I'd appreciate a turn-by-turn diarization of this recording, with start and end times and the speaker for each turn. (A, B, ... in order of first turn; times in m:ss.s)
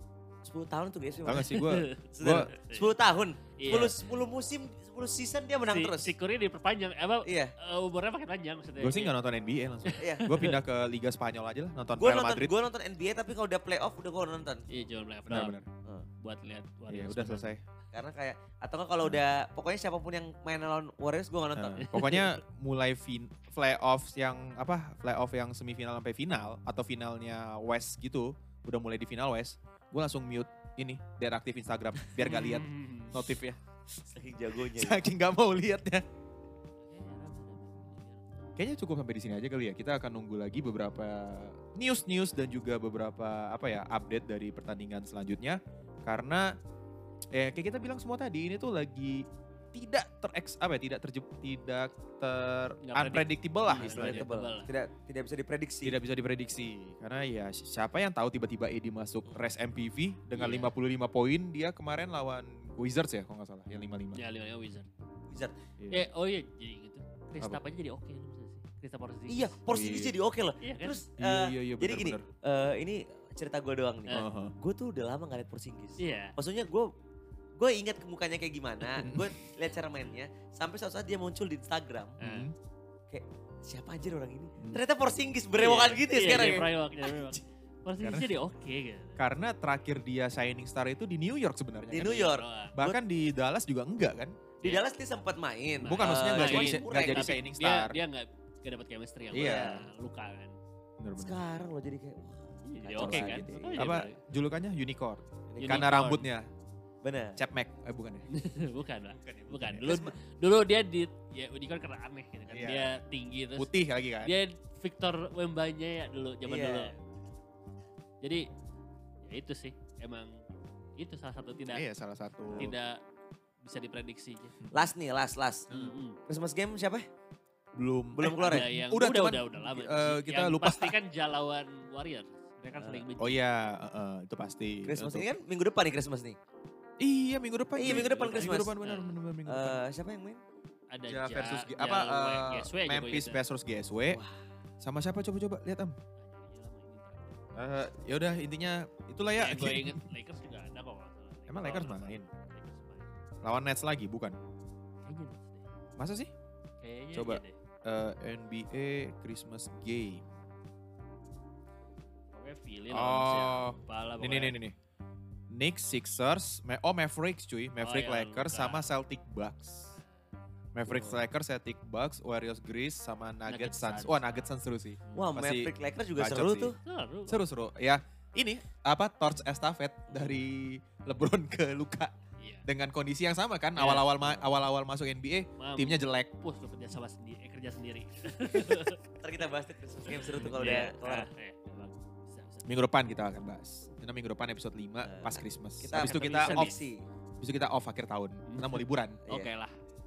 0:00.4-0:01.6 A
0:01.2-0:02.5 B
0:01.5-0:02.9 C
0:02.1-0:06.2 A
0:03.6-0:04.2 C
0:05.6-0:09.2 C
0:07.2-0:07.5 A
0:08.8-0:12.5 B
0:09.8-0:10.6 C
0:10.0-0:10.3 A
0:12.0-0:14.6 A
0:14.7-0:15.6 C
0:15.3-0:15.7 B
0:16.2-0:17.5 C
0:16.9-0:17.6 B
0:17.9-0:21.9 A
0:21.6-0:33.6 B
0:21.8-0:22.4 C
0:32.2-0:33.2 C
0:34.0-0:35.0 A
0:34.7-0:36.0 B
0:36.8-0:38.3 C
0:38.6-0:46.6 B
0:47.3-0:54.3 B
0:52.8-0:54.7 C
0:53.7-0:56.0 A
0:55.8-1:04.2 B
1:00.4-1:00.7 C
1:04.1-1:04.9 C
1:05.3-1:05.6 A
1:05.8-1:06.1 B
1:05.9-1:09.6 C
1:09.3-1:16.9 A
1:09.7-1:10.2 B
1:10.6-1:11.0 C
1:11.2-1:12.2 B
1:14.1-1:14.6 B
1:16.0-1:16.4 C
1:17.6-1:22.2 A
1:19.0-1:19.3 B
1:22.2-1:22.5 C
1:22.2-1:22.6 B
1:23.1-1:26.7 A
1:25.6-1:29.2 C
1:26.2-1:27.4 B
1:28.0-1:28.3 B
1:29.2-1:34.4 B
1:31.9-1:33.0 A
1:31.9-1:32.8 C
1:34.6-1:37.4 A
1:35.8-1:40.6 C
1:35.8-1:38.0 B
1:39.3-1:39.9 B
1:39.4-1:39.8 A
1:41.0-1:41.6 B
1:41.2-1:44.0 A
1:42.6-1:44.2 C
1:43.0-1:46.5 B
1:45.5-1:45.9 A
1:45.6-1:46.3 C
1:47.0-1:47.4 A
1:47.4-1:48.3 B
1:48.3-1:53.7 C
1:49.1-1:50.0 B
1:49.8-1:50.1 A
1:52.5-1:53.0 B
1:53.6-1:54.4 B
1:54.2-1:57.0 C
1:56.4-1:57.0 A
1:59.2-2:00.4 C
2:01.0-2:01.8 C
2:01.6-2:02.7 B
2:02.5-2:03.0 C
2:03.6-2:04.6 C
2:04.6-2:04.9 B
2:04.7-2:05.7 A
2:05.7-2:06.2 C
2:06.3-2:07.1 A
2:07.8-2:11.0 B
2:08.2-2:08.7 A
2:08.4-2:13.4 C
2:12.7-2:13.0 A
2:13.2-2:15.3 B
2:14.9-2:16.4 A
2:17.0-2:19.8 B
2:17.8-2:18.7 A
2:17.8-2:19.2 C
2:19.5-2:20.4 A
2:20.9-2:23.4 C
2:21.1-2:24.2 B
2:24.1-2:24.4 A
2:24.8-2:26.0 B
2:26.2-2:27.5 C
2:27.6-2:30.1 B
2:29.4-2:33.1 C
2:31.5-2:32.3 B
2:33.4-2:34.4 B
2:35.0-2:35.7 C
2:36.0-2:36.3 B
2:36.8-2:37.6 C
2:37.1-2:40.2 B
2:42.3-2:44.6 C
2:42.9-2:44.8 B
2:45.5-2:49.9 B
2:47.8-2:48.8 C
2:50.0-2:50.2 C
2:50.7-3:06.3 B
2:50.9-2:51.2 C
2:53.5-2:54.5 C
2:55.0-2:55.4 C
2:55.2-2:56.8 A
2:56.8-2:57.4 C
3:02.4-3:02.7 C
3:03.8-3:04.1 C
3:05.6-3:09.0 C
3:09.2-3:11.3 A
3:10.1-3:12.7 C
3:12.7-3:16.7 B
3:15.0-3:17.0 A
3:15.9-3:16.8 C
3:17.4-3:19.2 B
3:18.5-3:19.8 C
3:19.3-3:19.5 A